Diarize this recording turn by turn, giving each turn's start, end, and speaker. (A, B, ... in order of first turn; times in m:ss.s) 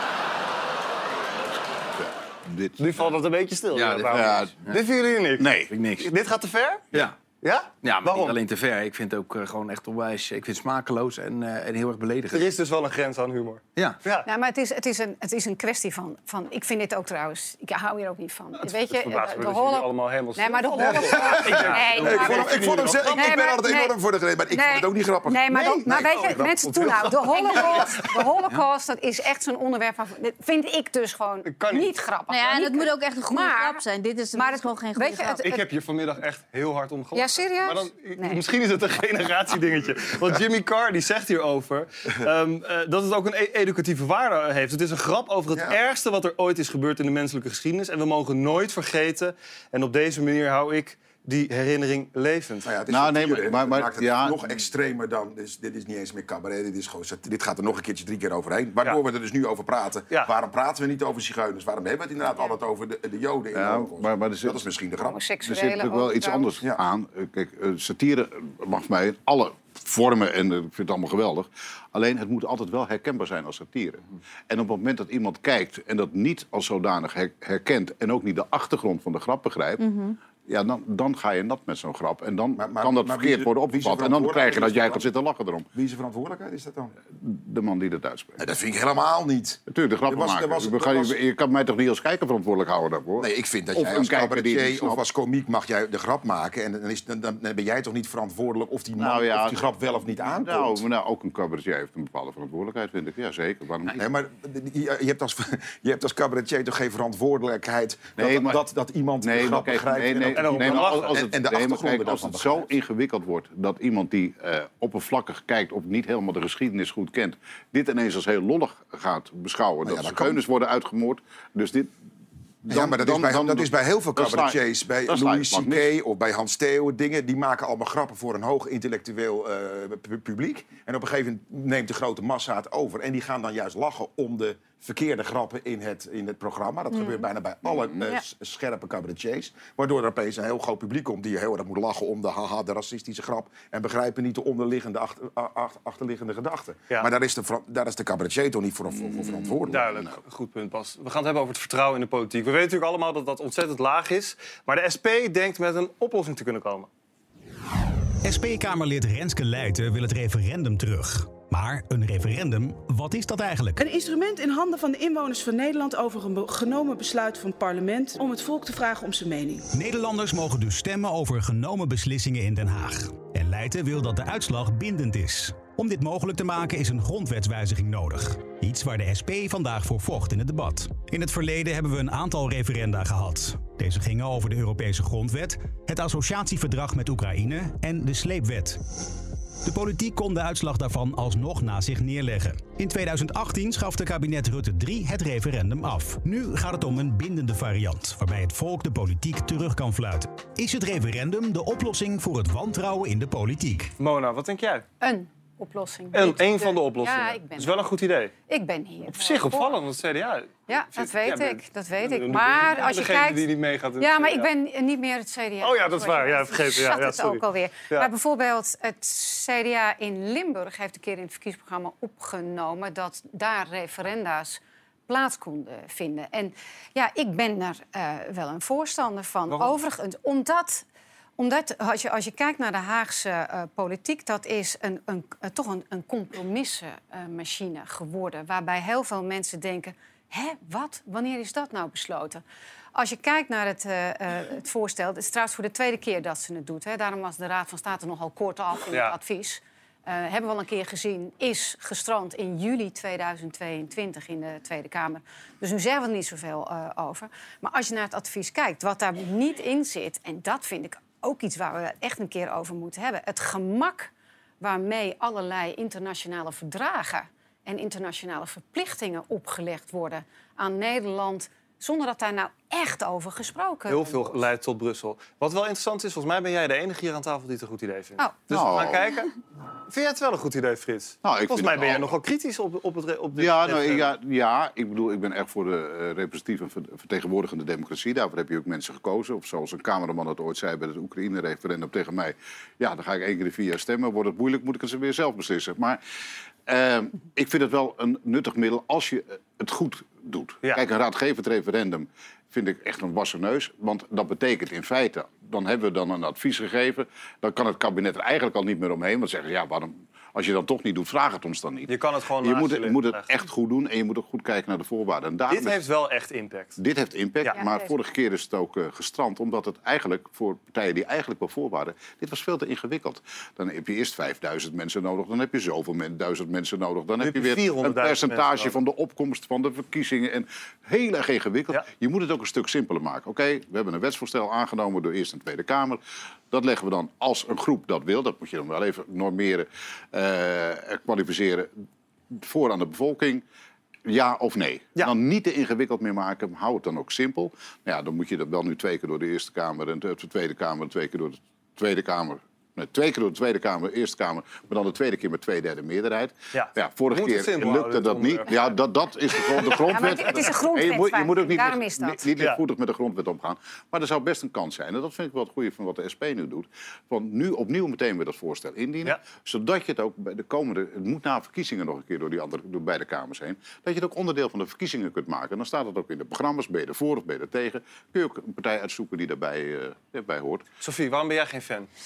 0:02.0-0:03.1 A
0:02.8-0:06.8 B
0:03.7-0:04.7 C
0:04.1-0:04.6 A
0:05.4-0:05.7 A
0:05.7-0:06.1 C
0:07.4-0:08.3 B
0:07.8-0:12.5 C
0:12.3-0:14.3 B
0:14.2-0:23.9 D
0:18.6-0:23.4 B
0:20.8-0:27.1 E
0:24.5-0:33.8 D
0:25.9-0:28.2 B
0:31.4-0:31.9 B
0:32.3-0:35.4 F
0:34.3-0:35.6 D
0:35.4-0:52.7 B
0:37.1-0:38.4 D
0:45.5-0:45.8 E
0:52.6-1:05.2 E
0:52.9-0:54.4 A
1:03.5-1:04.6 A
1:05.0-1:06.5 D
1:05.4-1:19.8 A
1:19.8-1:20.2 F
1:20.4-1:25.6 A
1:22.6-1:25.0 E
1:25.7-1:26.9 E
1:27.1-1:28.4 A
1:28.4-1:31.2 E
1:29.7-1:35.0 A
1:33.2-1:40.8 E
1:39.0-1:44.0 A
1:43.9-1:52.7 E
1:48.2-1:48.6 A
1:49.2-2:01.9 A
1:50.4-1:51.1 B
1:59.8-2:00.4 E
2:02.6-2:05.9 A
2:02.7-2:30.0 E
2:16.9-2:17.3 F
2:17.7-2:18.0 A
2:29.7-2:36.9 B
2:38.2-2:43.8 G
2:43.8-2:49.6 H
2:49.7-3:08.8 G
3:09.6-3:23.9 G
3:24.0-3:24.8 B
3:25.0-3:27.9 D
3:26.1-3:28.3 B
3:28.5-3:29.7 D
3:29.1-3:34.5 B
3:30.7-3:33.4 D
3:34.0-3:50.8 D
3:35.6-3:38.1 B
3:49.5-3:49.7 B
3:51.4-4:02.4 D
4:02.9-4:34.3 D
4:33.9-4:39.3 B
4:38.5-4:39.0 A
4:39.9-4:44.1 B
4:41.2-4:42.1 A
4:43.4-4:56.0 A
4:56.7-5:15.8 A
5:11.9-5:13.3 B
5:15.5-5:16.8 B
5:16.8-5:36.0 A
5:17.5-5:17.9 D
5:27.2-5:28.7 B
5:36.5-5:41.7 A
5:42.3-5:43.4 A
5:44.1-6:20.6 A
5:56.5-5:58.8 B
5:59.4-6:00.4 B
5:59.7-6:02.2 D
6:20.8-6:21.9 B